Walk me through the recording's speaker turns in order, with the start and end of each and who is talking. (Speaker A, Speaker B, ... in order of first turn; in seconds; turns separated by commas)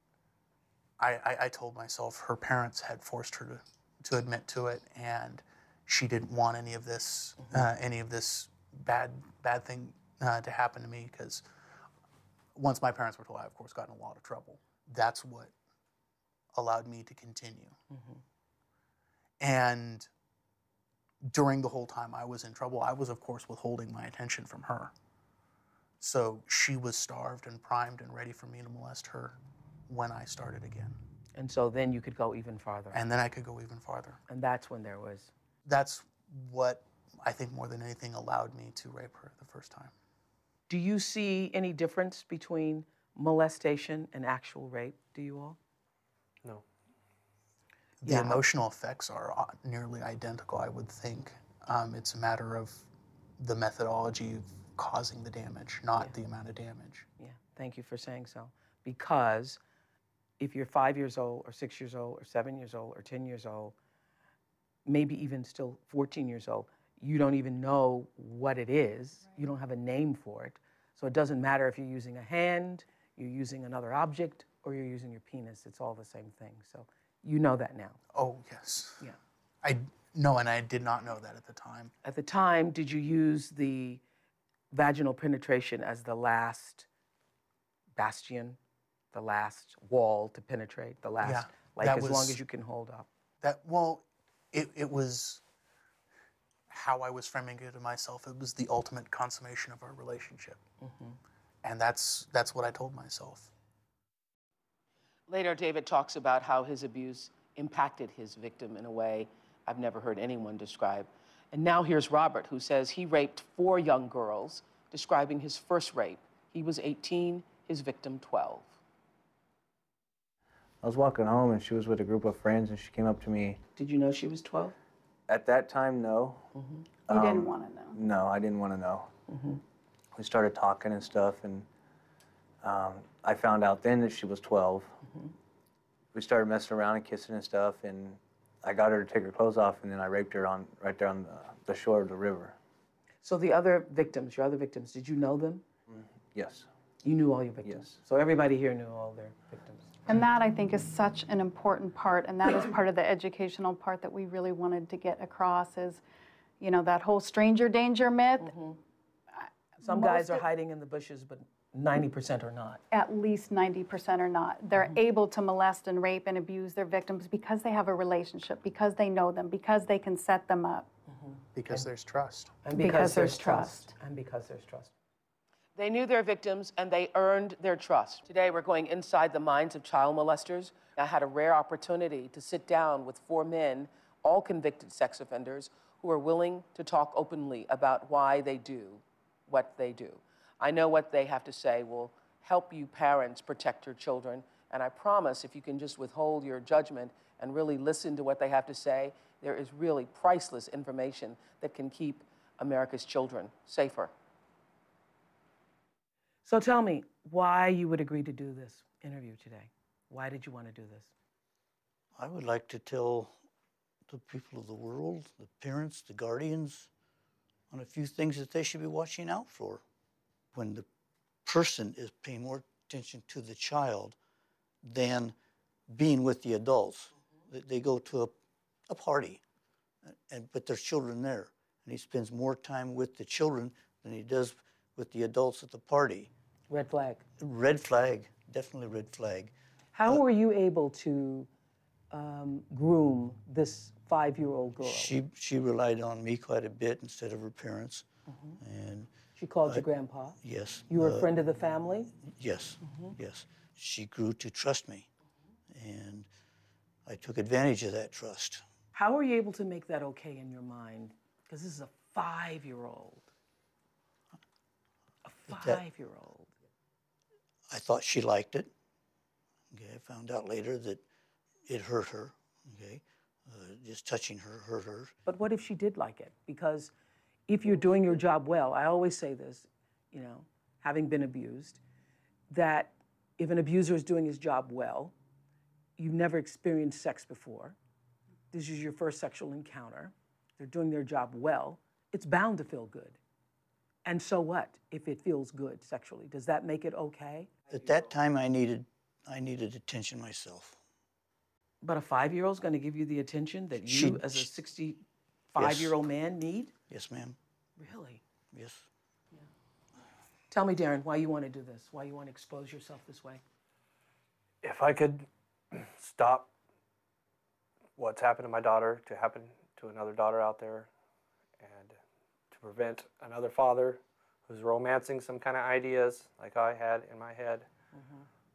Speaker A: 1.0-11.4, Speaker A: 12.5-15.5, Speaker A: 16.5-17.7, Speaker B: 17.9-18.2, Speaker A: 19.4-20.1, Speaker A: 21.2-24.9, Speaker A: 26.0-29.4, Speaker A: 29.9-30.9, Speaker B: 31.4-33.0, Speaker A: 32.9-34.2, Speaker B: 34.3-35.3, Speaker A: 35.6-39.9, Speaker B: 40.7-45.6, Speaker A: 48.0-57.0, Speaker B: 48.0-48.4, Speaker B: 57.2-59.6, Speaker B: 60.4-63.7, Speaker B: 64.8-78.0, Speaker A: 78.1-79.1, Speaker A: 79.6-81.9, Speaker B: 82.0-84.0, Speaker B: 84.7-86.9, Speaker B: 88.0-88.6, Speaker B: 89.1-93.1, Speaker A: 91.2-92.4, Speaker A: 93.4-95.4, Speaker A: 96.7-100.6, Speaker B: 100.8-101.2, Speaker A: 101.6-103.5, Speaker B: 105.3-118.7, Speaker C: 120.8-123.6, Speaker B: 123.8-124.8, Speaker C: 125.3-126.5, Speaker D: 127.1-128.0, Speaker C: 127.1-129.1, Speaker B: 129.3-129.6, Speaker C: 130.1-131.7, Speaker C: 132.6-135.0, Speaker C: 136.1-142.6, Speaker B: 143.2-145.6, Speaker C: 145.9-146.7, Speaker B: 147.0-149.9, Speaker D: 150.1-156.0, Speaker D: 156.6-158.6, Speaker B: 158.4-158.8, Speaker D: 159.4-160.4, Speaker B: 159.8-162.8, Speaker D: 162.9-170.9, Speaker B: 171.3-171.8, Speaker A: 171.5-172.5, Speaker B: 172.6-174.9, Speaker D: 172.7-173.9, Speaker B: 175.8-204.1, Speaker B: 206.4-211.1, Speaker E: 212.2-213.3, Speaker E: 214.1-216.9, Speaker E: 217.7-219.8, Speaker E: 220.5-220.8, Speaker E: 221.4-224.2, Speaker E: 224.8-225.3, Speaker E: 225.9-228.3, Speaker E: 228.9-229.4, Speaker E: 230.1-236.3, Speaker B: 236.7-237.2, Speaker E: 237.4-239.5, Speaker B: 239.9-241.5, Speaker B: 242.1-245.1, Speaker E: 244.8-248.0, Speaker B: 248.3-248.6, Speaker E: 248.6-249.1, Speaker B: 249.4-252.1, Speaker E: 250.4-251.3, Speaker E: 252.2-255.1, Speaker B: 252.8-253.1, Speaker E: 255.7-256.3, Speaker E: 257.0-258.6, Speaker B: 258.9-263.3, Speaker B: 265.2-266.5, Speaker E: 265.5-265.8, Speaker E: 267.7-268.7, Speaker E: 269.7-271.0, Speaker E: 271.7-275.1, Speaker B: 275.2-276.9, Speaker B: 277.5-281.8, Speaker B: 282.5-285.1, Speaker B: 286.0-287.8, Speaker B: 288.5-293.2, Speaker B: 294.0-297.5, Speaker E: 297.7-300.8, Speaker B: 301.8-306.7, Speaker E: 303.8-304.5, Speaker E: 305.6-306.0, Speaker E: 306.9-307.4, Speaker B: 307.8-308.2, Speaker E: 308.5-308.9, Speaker B: 310.5-313.4, Speaker F: 314.6-316.5, Speaker F: 318.0-320.9, Speaker F: 321.6-322.0, Speaker F: 322.5-327.7, Speaker B: 327.9-328.2